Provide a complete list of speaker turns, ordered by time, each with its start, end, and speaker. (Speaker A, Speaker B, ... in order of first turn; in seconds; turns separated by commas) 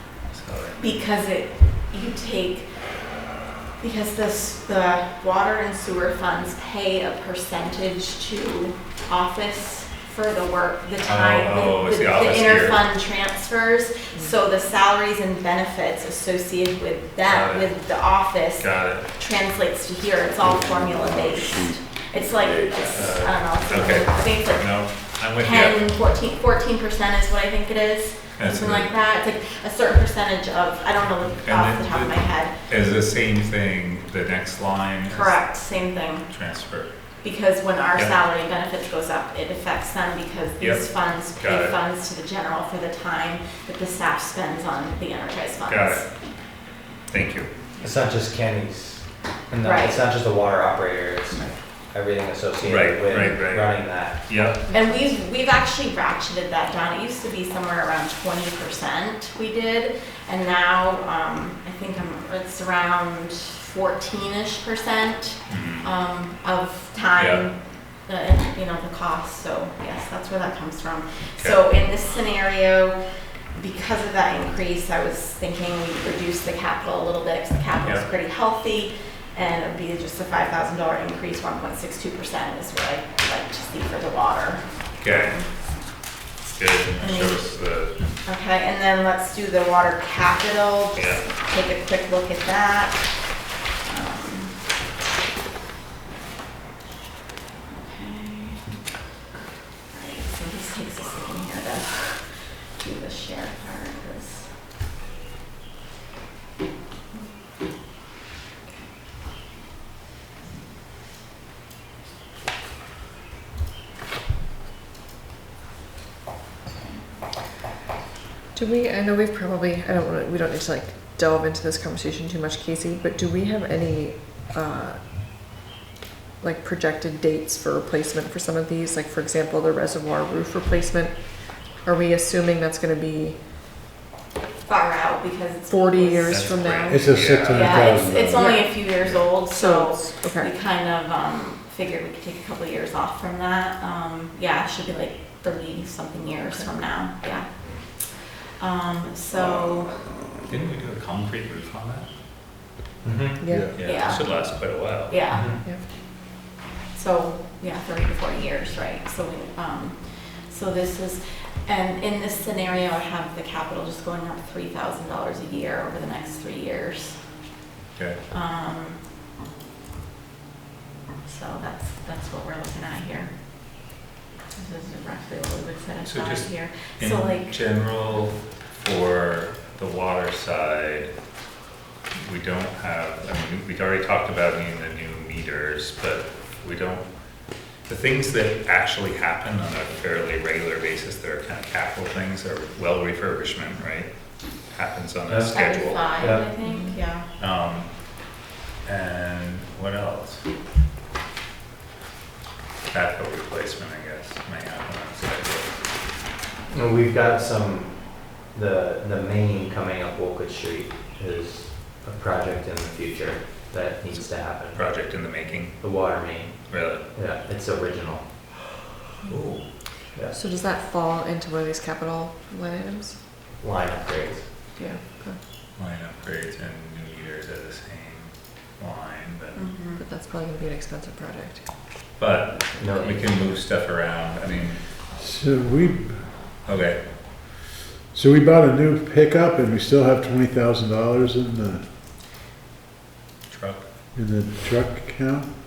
Speaker A: 0.2-0.9, Speaker B: 0.8-2.7, Speaker B: 3.8-24.8, Speaker A: 11.0-12.9, Speaker A: 17.2-17.7, Speaker A: 18.6-19.1, Speaker C: 20.4-23.2, Speaker A: 22.9-25.8, Speaker B: 25.4-32.5, Speaker A: 28.4-28.9, Speaker A: 31.4-35.4, Speaker B: 35.1-36.3, Speaker A: 36.3-36.9, Speaker B: 37.2-46.0, Speaker A: 40.6-41.8, Speaker A: 45.7-46.0, Speaker A: 47.1-47.9, Speaker D: 47.8-54.5, Speaker B: 49.6-50.0, Speaker A: 52.6-54.6, Speaker B: 54.7-73.0, Speaker A: 65.5-65.9, Speaker A: 67.2-67.4, Speaker B: 73.5-85.6, Speaker A: 77.8-78.0, Speaker A: 85.0-85.4, Speaker A: 86.5-88.1, Speaker B: 87.0-87.5, Speaker B: 88.2-93.1, Speaker A: 91.0-91.2, Speaker B: 93.8-94.5, Speaker B: 97.7-98.7, Speaker B: 99.9-104.5, Speaker E: 118.5-125.0, Speaker E: 126.4-133.4, Speaker B: 134.7-136.5, Speaker E: 135.7-137.2, Speaker A: 136.3-137.9, Speaker C: 136.9-138.6, Speaker B: 137.4-150.0, Speaker E: 138.3-138.8, Speaker E: 139.4-140.5, Speaker C: 149.4-150.5, Speaker A: 150.5-152.1, Speaker D: 153.0-153.4, Speaker E: 153.4-153.7, Speaker C: 153.5-154.0, Speaker A: 153.7-155.2, Speaker B: 153.8-155.6, Speaker D: 155.3-155.6, Speaker E: 155.5-155.8, Speaker B: 156.9-167.2, Speaker A: 167.9-168.2, Speaker B: 168.3-169.0, Speaker B: 171.2-173.3, Speaker B: 174.5-177.5, Speaker A: 176.0-181.1, Speaker A: 182.2-187.1, Speaker A: 187.8-196.2, Speaker D: 195.3-196.5, Speaker B: 195.5-197.3, Speaker E: 196.7-197.0, Speaker A: 197.3-197.9, Speaker A: 198.8-200.4, Speaker A: 202.9-205.8, Speaker D: 206.7-214.9, Speaker A: 214.7-215.8, Speaker D: 215.8-216.6, Speaker A: 216.7-217.0, Speaker D: 217.1-218.3, Speaker A: 219.2-219.7, Speaker E: 220.3-223.2, Speaker D: 223.6-224.5, Speaker E: 224.8-225.4, Speaker A: 225.8-229.7, Speaker B: 229.5-230.0, Speaker E: 230.0-231.6, Speaker A: 232.2-234.8, Speaker D: 232.8-233.5, Speaker C: 235.2-236.3, Speaker A: 236.6-237.0, Speaker C: 238.1-241.8, Speaker A: 243.5-243.8, Speaker C: 244.1-245.5